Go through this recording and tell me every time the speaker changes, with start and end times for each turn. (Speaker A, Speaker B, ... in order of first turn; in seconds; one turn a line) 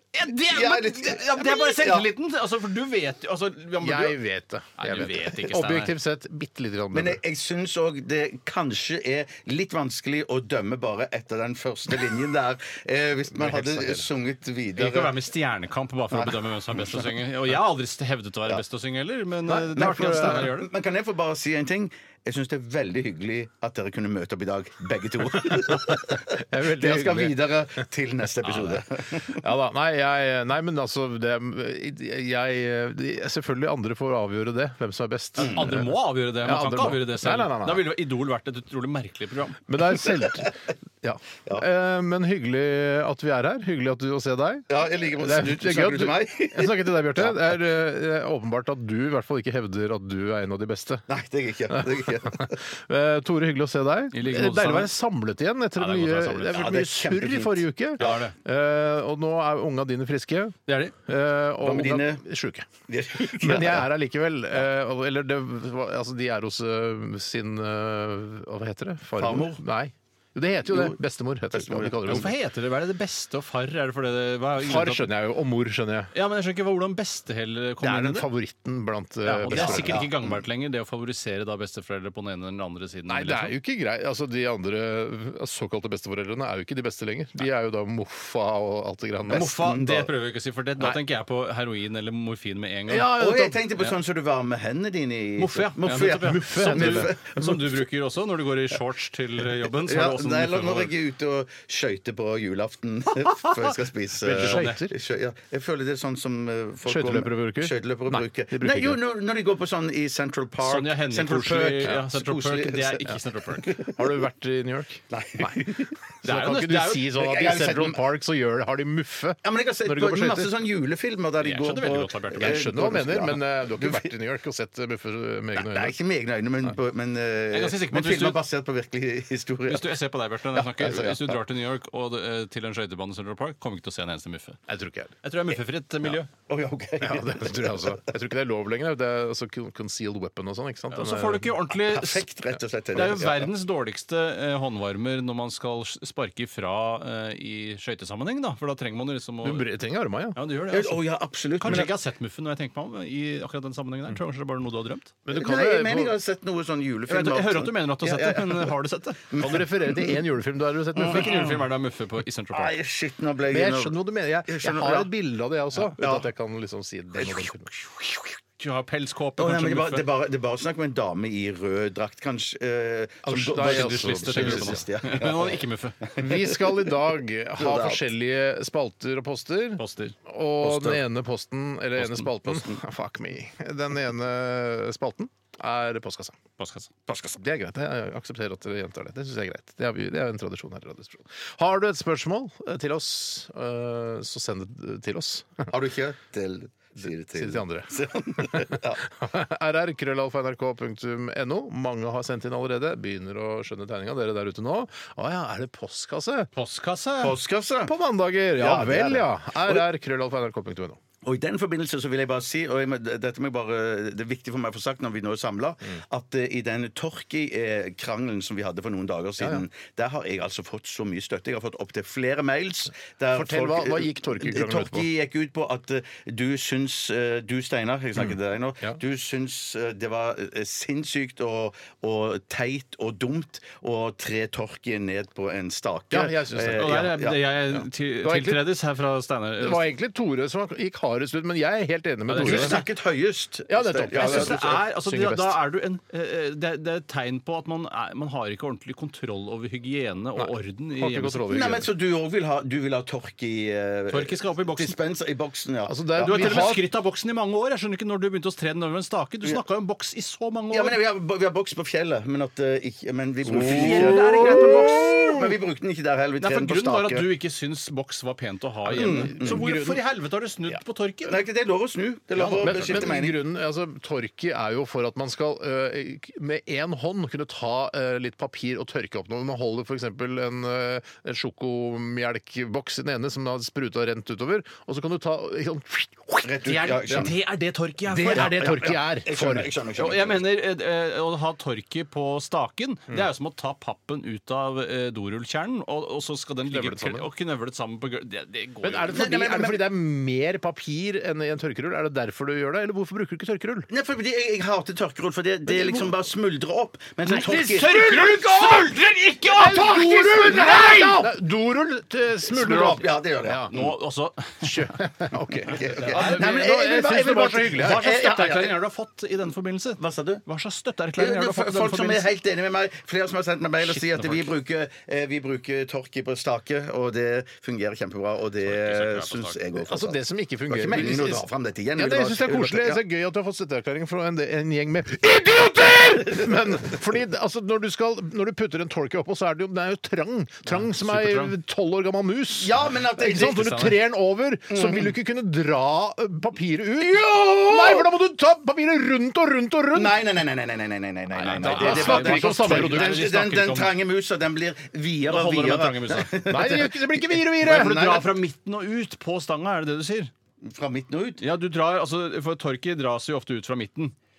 Speaker A: 0.1-4.2
Speaker B: 0.5-2.1
Speaker C: 3.8-7.2
Speaker A: 4.8-5.9
Speaker B: 6.9-15.2
Speaker C: 13.3-14.1
Speaker A: 14.8-20.7
Speaker B: 16.1-17.0
Speaker C: 19.5-20.5
Speaker B: 19.8-29.4
Speaker C: 25.4-27.5
Speaker A: 28.4-28.8
Speaker C: 29.3-37.9
Speaker A: 35.4-39.6
Speaker B: 35.4-35.7
Speaker C: 39.7-51.0
Speaker B: 44.7-47.5
Speaker B: 51.1-52.6
Speaker C: 51.7-62.7
Speaker A: 54.1-54.9
Speaker A: 55.8-56.6
Speaker B: 56.5-58.2
Speaker A: 58.0-58.4
Speaker A: 60.7-60.9
Speaker B: 61.6-62.2
Speaker B: 62.9-63.9
Speaker C: 63.2-72.3
Speaker B: 69.2-69.6
Speaker B: 70.7-71.0
Speaker B: 71.5-72.3
Speaker A: 72.1-75.1
Speaker C: 74.6-76.1
Speaker A: 76.1-78.3
Speaker C: 77.8-80.1
Speaker A: 79.2-83.5
Speaker B: 79.5-80.4
Speaker C: 83.1-89.5
Speaker B: 89.3-90.1
Speaker A: 89.3-93.2
Speaker C: 92.9-93.7
Speaker B: 93.1-97.5
Speaker A: 95.4-100.9
Speaker C: 96.1-97.7
Speaker B: 99.9-114.1
Speaker C: 104.2-105.0
Speaker A: 104.3-104.8
Speaker C: 106.9-109.0
Speaker A: 110.6-113.8
Speaker C: 113.9-120.5
Speaker B: 115.1-116.0
Speaker A: 116.2-117.1
Speaker B: 117.1-118.0
Speaker B: 119.4-124.1
Speaker A: 121.4-122.7
Speaker C: 122.4-126.0
Speaker B: 125.6-130.0
Speaker A: 127.5-128.4
Speaker A: 129.7-134.6
Speaker B: 130.6-131.4
Speaker C: 134.7-135.2
Speaker A: 135.2-136.3
Speaker B: 136.1-138.0
Speaker C: 137.0-141.6
Speaker A: 140.9-142.2
Speaker B: 141.8-143.5
Speaker A: 142.9-149.7
Speaker C: 149.4-150.4
Speaker A: 150.3-151.0
Speaker B: 150.7-151.9
Speaker A: 151.6-155.1
Speaker C: 151.6-151.9
Speaker C: 155.2-156.2
Speaker B: 155.3-158.8
Speaker A: 157.1-159.2
Speaker B: 159.3-160.2
Speaker C: 159.4-161.5
Speaker B: 161.0-161.6
Speaker A: 161.0-162.8
Speaker B: 162.5-165.1
Speaker C: 163.5-167.7
Speaker B: 166.0-166.3
Speaker B: 167.2-168.2
Speaker A: 168.6-170.1
Speaker B: 169.4-177.0
Speaker C: 173.2-174.9
Speaker A: 173.6-176.0
Speaker C: 176.2-186.4
Speaker B: 177.6-178.1
Speaker A: 179.8-180.2
Speaker B: 180.6-181.0
Speaker B: 182.0-182.8
Speaker A: 186.6-186.9
Speaker B: 187.1-187.4
Speaker C: 187.3-195.7
Speaker B: 195.7-199.0
Speaker C: 197.0-206.5
Speaker A: 206.6-207.3
Speaker B: 207.2-207.9
Speaker C: 207.9-211.0
Speaker B: 208.6-209.9
Speaker B: 211.2-237.4
Speaker C: 219.4-219.6
Speaker C: 223.3-225.1
Speaker C: 228.2-229.0
Speaker C: 236.1-237.0
Speaker A: 236.8-239.9
Speaker C: 238.2-238.7
Speaker C: 239.6-242.8
Speaker A: 242.3-242.8
Speaker B: 242.4-244.8
Speaker C: 243.7-245.6
Speaker A: 244.2-251.6
Speaker C: 250.4-251.9
Speaker B: 251.5-256.8
Speaker A: 254.1-254.9
Speaker C: 255.9-256.8
Speaker A: 256.2-261.0
Speaker B: 260.7-267.3
Speaker C: 263.4-265.6
Speaker A: 263.5-265.2
Speaker A: 266.4-271.4
Speaker B: 268.9-269.7
Speaker C: 268.9-270.0
Speaker B: 271.2-273.4
Speaker A: 272.4-273.1
Speaker C: 272.6-287.3
Speaker B: 286.4-287.4
Speaker A: 286.6-288.7
Speaker B: 288.1-290.4
Speaker C: 288.1-289.7
Speaker A: 290.0-299.1
Speaker C: 296.7-297.3
Speaker C: 298.8-303.9
Speaker B: 299.1-299.9
Speaker B: 303.9-308.2
Speaker C: 305.7-306.1
Speaker C: 307.3-308.9
Speaker A: 307.3-311.1
Speaker C: 309.4-313.7
Speaker B: 309.6-311.3
Speaker B: 312.5-314.0
Speaker A: 313.7-314.9
Speaker C: 314.6-318.0
Speaker B: 315.7-318.8
Speaker A: 315.7-316.5
Speaker A: 317.8-322.3
Speaker B: 320.0-320.4
Speaker B: 321.2-333.0
Speaker A: 324.1-324.4
Speaker A: 328.6-329.6
Speaker C: 329.9-350.3
Speaker B: 336.2-336.5
Speaker A: 340.6-341.6
Speaker B: 342.6-343.9
Speaker B: 344.7-345.1
Speaker B: 347.0-348.1
Speaker B: 349.9-358.0
Speaker A: 351.3-353.9
Speaker C: 351.6-353.3
Speaker A: 355.3-356.4
Speaker C: 356.5-358.4
Speaker A: 357.6-360.3
Speaker B: 360.6-361.4
Speaker A: 361.4-364.1